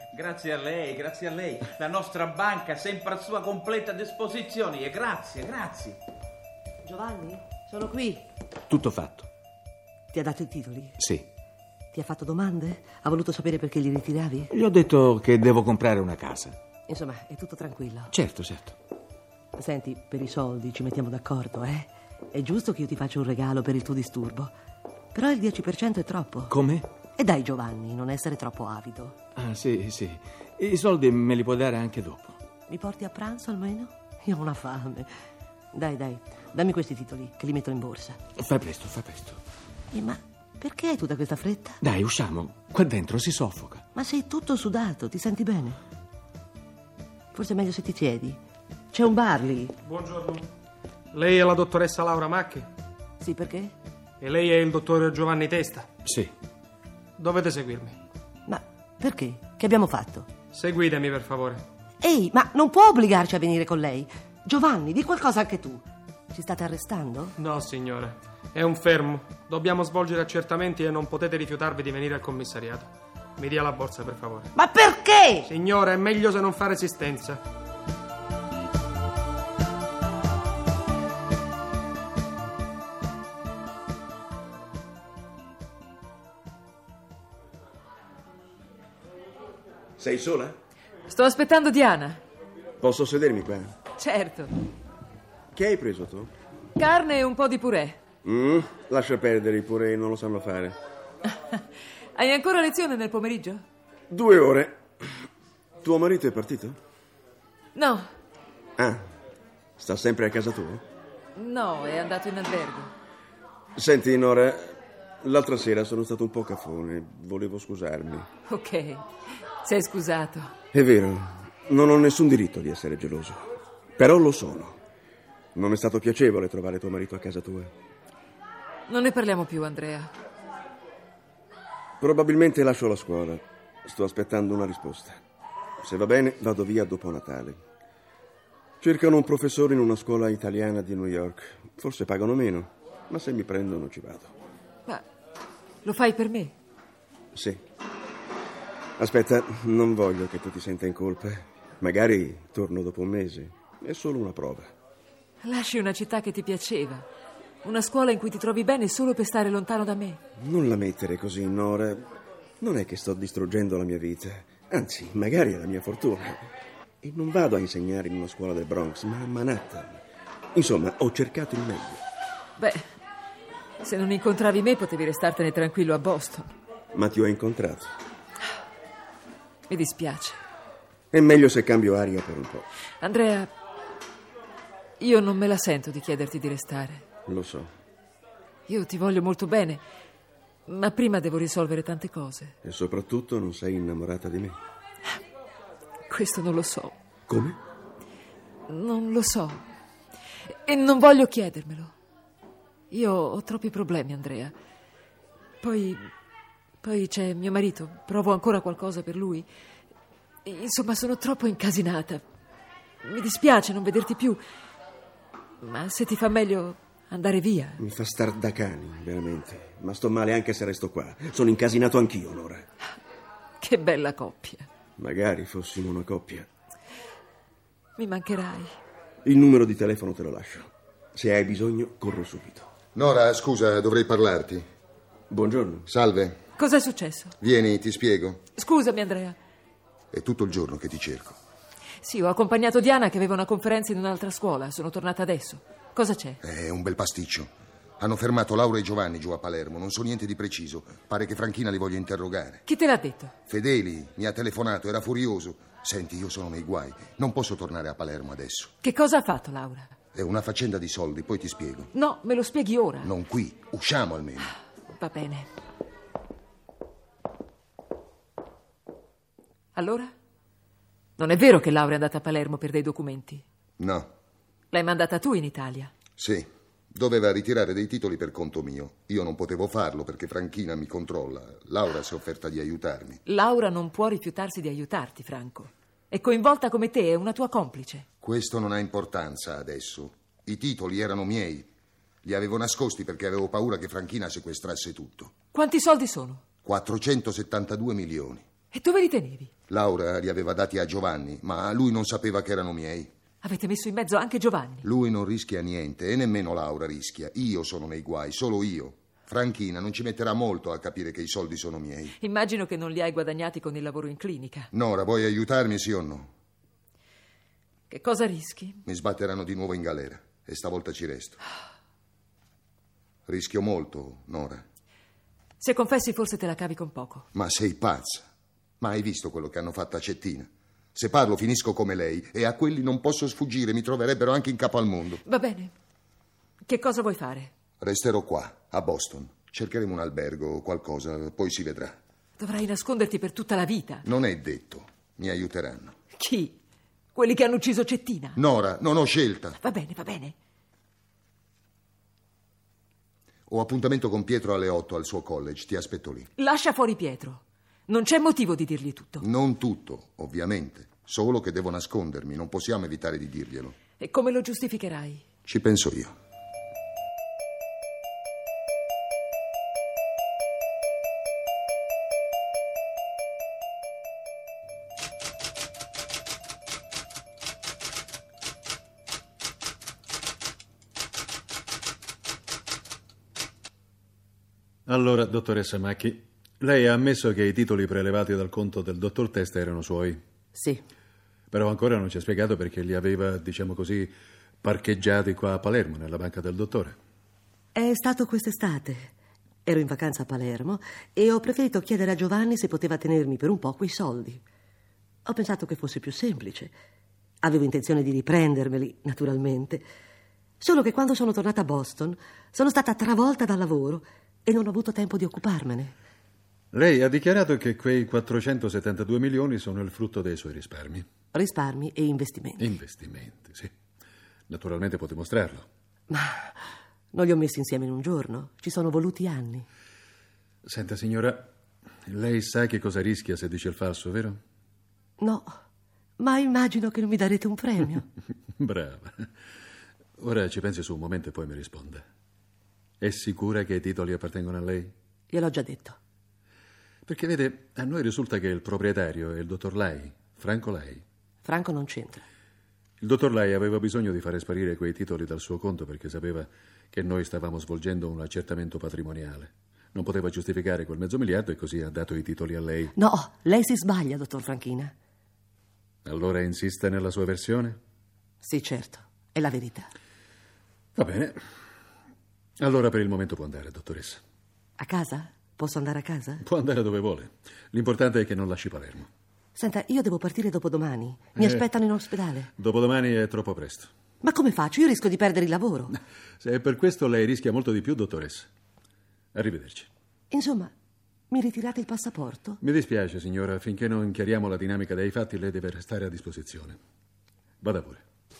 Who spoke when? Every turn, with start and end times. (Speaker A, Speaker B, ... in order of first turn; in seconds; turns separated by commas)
Speaker A: 0.2-5.3, Speaker B: 6.8-8.3, Speaker C: 8.7-9.2, Speaker B: 10.1-11.1, Speaker B: 11.9-14.6, Speaker C: 14.6-16.6, Speaker B: 16.9-18.2, Speaker C: 18.1-18.7, Speaker B: 19.6-24.5, Speaker B: 25.1-29.2, Speaker C: 29.4-32.3, Speaker B: 32.7-35.1, Speaker B: 35.7-38.2, Speaker C: 38.4-39.4, Speaker B: 39.9-41.8, Speaker C: 41.8-43.8, Speaker B: 44.0-45.8, Speaker B: 47.3-48.4, Speaker B: 48.9-49.8, Speaker D: 49.9-50.5, Speaker D: 51.1-52.7, Speaker B: 53.2-53.7, Speaker D: 54.2-55.9, Speaker D: 57.2-58.0, Speaker B: 58.5-60.3, Speaker D: 60.5-61.6, Speaker B: 62.0-67.4, Speaker D: 67.4-74.5, Speaker B: 74.5-75.5, Speaker D: 75.5-77.4, Speaker E: 90.0-90.6, Speaker F: 91.1-92.2, Speaker E: 92.8-93.7, Speaker F: 94.0-94.6, Speaker E: 95.5-96.3, Speaker F: 96.8-98.0, Speaker E: 98.2-100.8, Speaker F: 101.3-103.6, Speaker E: 104.1-104.8, Speaker E: 105.8-106.8, Speaker F: 107.8-108.1, Speaker E: 109.8-110.8, Speaker F: 111.4-112.9, Speaker E: 113.8-118.3, Speaker F: 118.5-119.1, Speaker F: 119.6-120.5, Speaker E: 120.7-124.8, Speaker E: 125.5-127.7, Speaker F: 128.9-130.1, Speaker E: 132.0-135.2, Speaker E: 135.8-137.6, Speaker E: 138.8-144.3, Speaker F: 145.8-146.6, Speaker E: 147.3-147.6, Speaker E: 149.0-154.7, Speaker F: 155.4-157.1, Speaker F: 157.6-160.2, Speaker E: 160.4-162.1, Speaker E: 162.6-166.4, Speaker E: 167.0-170.0, Speaker E: 170.5-172.0, Speaker F: 172.6-172.9, Speaker F: 173.8-176.5, Speaker E: 176.9-177.9, Speaker F: 179.7-180.4, Speaker E: 181.1-182.7, Speaker F: 183.0-183.5, Speaker F: 185.0-187.1, Speaker E: 187.3-187.7, Speaker F: 188.7-189.8, Speaker F: 190.7-192.6, Speaker E: 192.6-194.6, Speaker F: 196.1-196.9, Speaker E: 197.3-197.6, Speaker F: 198.7-199.6, Speaker F: 200.5-201.9, Speaker F: 202.9-204.5, Speaker F: 205.6-206.1, Speaker F: 206.8-209.5, Speaker F: 210.5-212.2, Speaker F: 213.0-214.4, Speaker F: 215.6-217.8, Speaker E: 217.8-222.7, Speaker F: 223.6-224.7, Speaker E: 225.0-226.5, Speaker F: 228.0-228.8, Speaker E: 229.2-232.7, Speaker G: 232.9-234.7, Speaker E: 235.3-235.9, Speaker G: 235.9-236.4, Speaker F: 236.6-237.3, Speaker G: 237.4-238.4, Speaker F: 238.6-239.4, Speaker G: 240.1-241.4, Speaker F: 242.0-246.4, Speaker G: 246.4-252.7, Speaker F: 252.7-253.3, Speaker G: 253.5-258.7, Speaker F: 258.8-259.9, Speaker G: 260.1-261.9, Speaker F: 261.9-263.1, Speaker G: 263.0-264.5, Speaker F: 264.9-265.5, Speaker F: 269.8-270.1, Speaker F: 271.2-273.4, Speaker G: 273.8-274.1, Speaker F: 274.7-275.9, Speaker G: 276.2-283.2, Speaker F: 283.3-288.1, Speaker G: 288.2-291.7, Speaker G: 292.2-295.3, Speaker F: 295.5-296.4, Speaker G: 296.6-298.4, Speaker F: 298.7-299.5, Speaker G: 299.7-303.1, Speaker F: 303.4-304.9, Speaker G: 304.8-312.2, Speaker F: 312.2-314.7, Speaker G: 314.7-316.3, Speaker F: 317.9-318.8, Speaker G: 318.9-321.4, Speaker G: 323.3-324.6, Speaker F: 325.6-327.3, Speaker G: 327.3-328.2, Speaker G: 328.8-335.2, Speaker F: 335.2-335.7, Speaker F: 336.6-337.5, Speaker G: 337.8-342.0, Speaker F: 342.4-344.0, Speaker G: 344.0-345.9, Speaker F: 346.2-346.6, Speaker F: 347.1-348.4, Speaker G: 348.4-349.6, Speaker F: 349.6-350.4, Speaker G: 353.5-356.3, Speaker F: 356.4-359.2, Speaker G: 359.2-363.8, Speaker F: 364.0-365.2, Speaker G: 365.4-366.1, Speaker H: 384.9-390.2, Speaker B: 390.6-390.8, Speaker H: 391.5-397.0, Speaker B: 397.8-399.1, Speaker B: 399.7-404.4, Speaker B: 405.3-406.7, Speaker B: 407.4-409.8, Speaker B: 410.6-415.9, Speaker H: 416.7-421.1, Speaker B: 421.3-422.7, Speaker H: 422.6-423.7, Speaker H: 424.5-425.6, Speaker B: 426.1-426.5, Speaker B: 427.1-429.7, Speaker H: 430.6-431.5, Speaker H: 432.1-434.4, Speaker B: 435.2-435.5, Speaker B: 436.2-438.1, Speaker H: 438.6-439.3, Speaker H: 440.2-442.0, Speaker H: 443.0-444.9, Speaker B: 445.3-446.0, Speaker H: 447.1-451.0, Speaker B: 451.4-452.2, Speaker H: 453.0-462.9, Speaker B: 463.0-464.9, Speaker H: 466.1-467.8, Speaker B: 468.4-469.9, Speaker H: 471.0-471.4, Speaker H: 472.6-474.2, Speaker B: 474.8-476.4, Speaker H: 476.4-479.1, Speaker B: 479.6-482.5, Speaker H: 481.4-481.7, Speaker H: 482.6-483.9, Speaker B: 484.2-486.0, Speaker H: 486.4-488.5, Speaker H: 489.4-489.9, Speaker B: 490.3-490.7, Speaker B: 491.3-492.6, Speaker H: 492.6-496.8, Speaker H: 497.6-498.0